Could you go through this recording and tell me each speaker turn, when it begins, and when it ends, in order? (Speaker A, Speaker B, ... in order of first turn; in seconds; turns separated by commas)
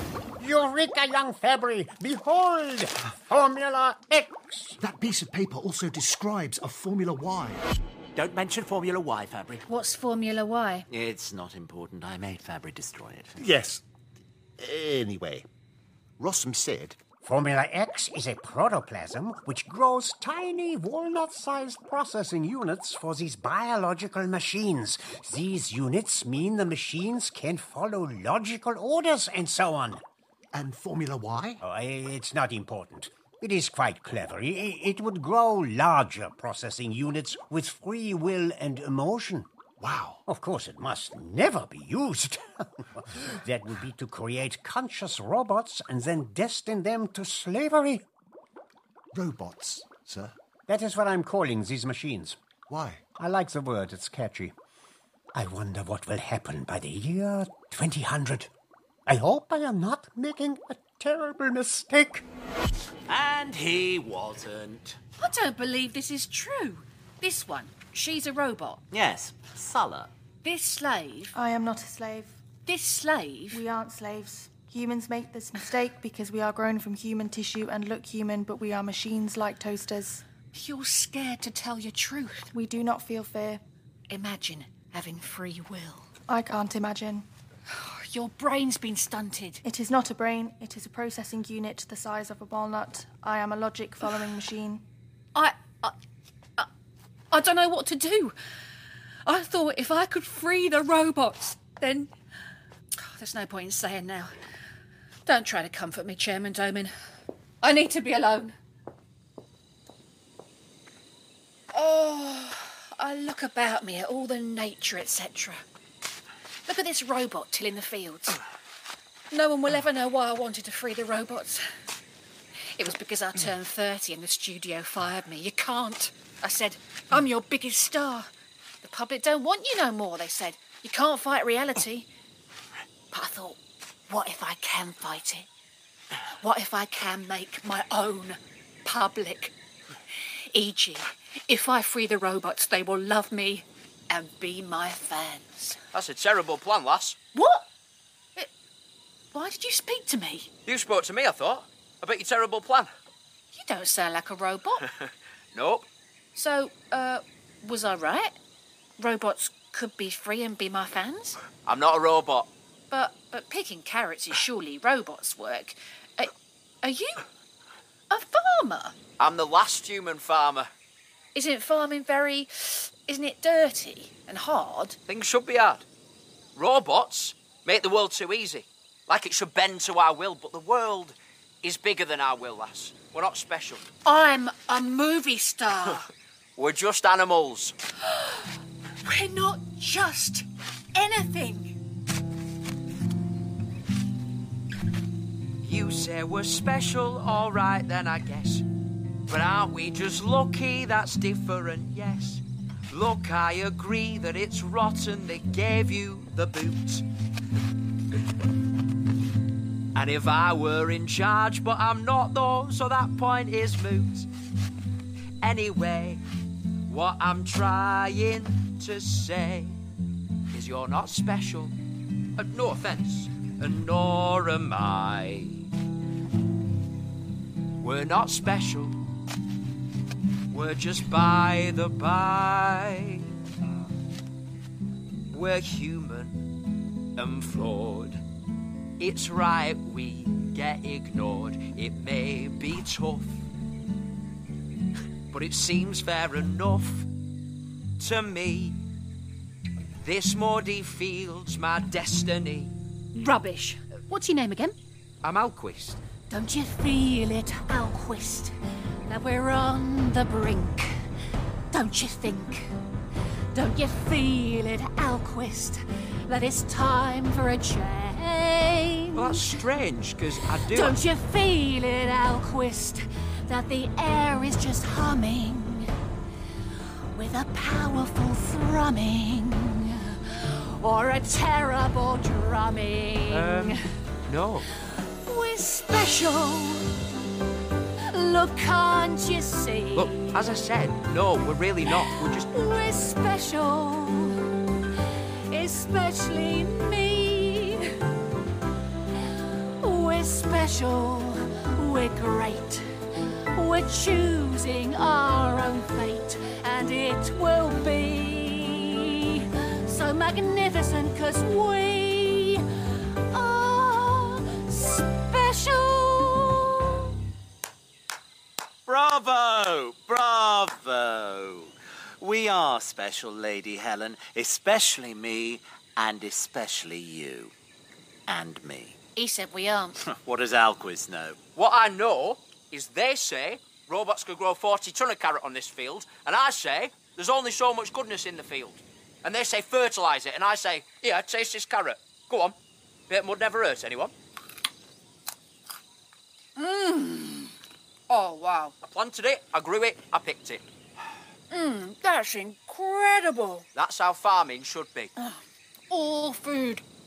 Speaker A: 0.4-4.8, Speaker B: 4.8-7.6, Speaker C: 8.2-9.7, Speaker D: 9.7-10.9, Speaker C: 10.9-13.4, Speaker B: 13.4-13.8, Speaker B: 14.6-15.4, Speaker B: 16.2-17.0, Speaker A: 17.2-30.0, Speaker B: 30.5-31.6, Speaker A: 31.6-39.5, Speaker B: 39.8-40.2, Speaker A: 40.2-48.0, Speaker B: 49.1-50.3, Speaker A: 50.7-52.4, Speaker B: 52.7-53.0, Speaker A: 53.2-54.5, Speaker A: 55.3-58.5, Speaker A: 59.1-62.2, Speaker C: 63.1-65.0, Speaker D: 65.2-68.8, Speaker C: 68.9-70.1, Speaker D: 70.4-71.3, Speaker E: 71.3-72.4, Speaker D: 72.7-73.6, Speaker E: 73.5-80.2, Speaker D: 80.5-82.5, Speaker E: 82.5-83.6, Speaker D: 84.1-86.1, Speaker E: 86.3-87.2, Speaker D: 87.7-89.6, Speaker E: 89.6-94.8, Speaker D: 95.3-95.9, Speaker D: 97.3-98.3, Speaker D: 99.2-102.1, Speaker D: 103.0-104.3, Speaker D: 105.2-106.9, Speaker D: 107.6-108.5, Speaker D: 111.7-115.6, Speaker D: 116.7-118.4, Speaker D: 119.3-121.6, Speaker D: 122.8-128.3, Speaker D: 128.8-132.1, Speaker D: 133.1-135.5, Speaker D: 136.4-139.5, Speaker D: 140.5-145.8, Speaker F: 145.9-147.2, Speaker D: 147.3-147.7, Speaker D: 149.3-150.5, Speaker F: 150.7-152.9, Speaker D: 153.5-154.8, Speaker F: 155.0-155.9, Speaker D: 156.3-158.3, Speaker D: 159.0-161.4, Speaker F: 161.6-162.5, Speaker D: 162.9-167.2, Speaker D: 168.1-169.0, Speaker F: 169.2-170.7, Speaker D: 171.3-175.0, Speaker F: 175.1-175.8, Speaker F: 176.5-183.9, Speaker D: 184.0-186.0, Speaker F: 186.6-187.7, Speaker D: 188.1-188.4, Speaker D: 189.0-191.8, Speaker F: 195.6-198.7, Speaker F: 199.2-207.0, Speaker F: 209.9-214.3, Speaker F: 215.4-216.2, Speaker F: 216.9-219.8, Speaker F: 220.5-221.7, Speaker F: 222.3-225.6, Speaker F: 227.8-229.0, Speaker F: 230.5-233.3, Speaker F: 235.3-236.4, Speaker F: 237.1-238.2, Speaker F: 239.0-243.4, Speaker F: 245.3-247.1, Speaker F: 248.0-248.8, Speaker F: 250.0-252.7, Speaker D: 253.1-254.8, Speaker F: 255.2-256.0, Speaker D: 256.3-258.5, Speaker D: 259.1-260.9, Speaker D: 261.7-262.7, Speaker D: 263.5-269.6, Speaker F: 269.1-271.0, Speaker D: 270.6-275.9, Speaker D: 277.1-283.8, Speaker F: 283.3-284.7, Speaker D: 284.9-286.9, Speaker D: 288.1-290.3, Speaker F: 289.9-292.5, Speaker D: 291.9-294.4, Speaker D: 295.5-297.9, Speaker D: 299.8-302.8, Speaker D: 303.5-312.6, Speaker D: 313.3-317.0, Speaker C: 318.9-327.5, Speaker C: 328.3-329.0, Speaker D: 329.1-330.0, Speaker C: 330.0-331.4, Speaker F: 331.6-342.6, Speaker F: 343.1-344.1, Speaker D: 346.6-347.5, Speaker D: 348.1-348.7, Speaker F: 348.8-350.6, Speaker D: 351.5-353.7, Speaker F: 353.7-355.1, Speaker D: 355.2-356.8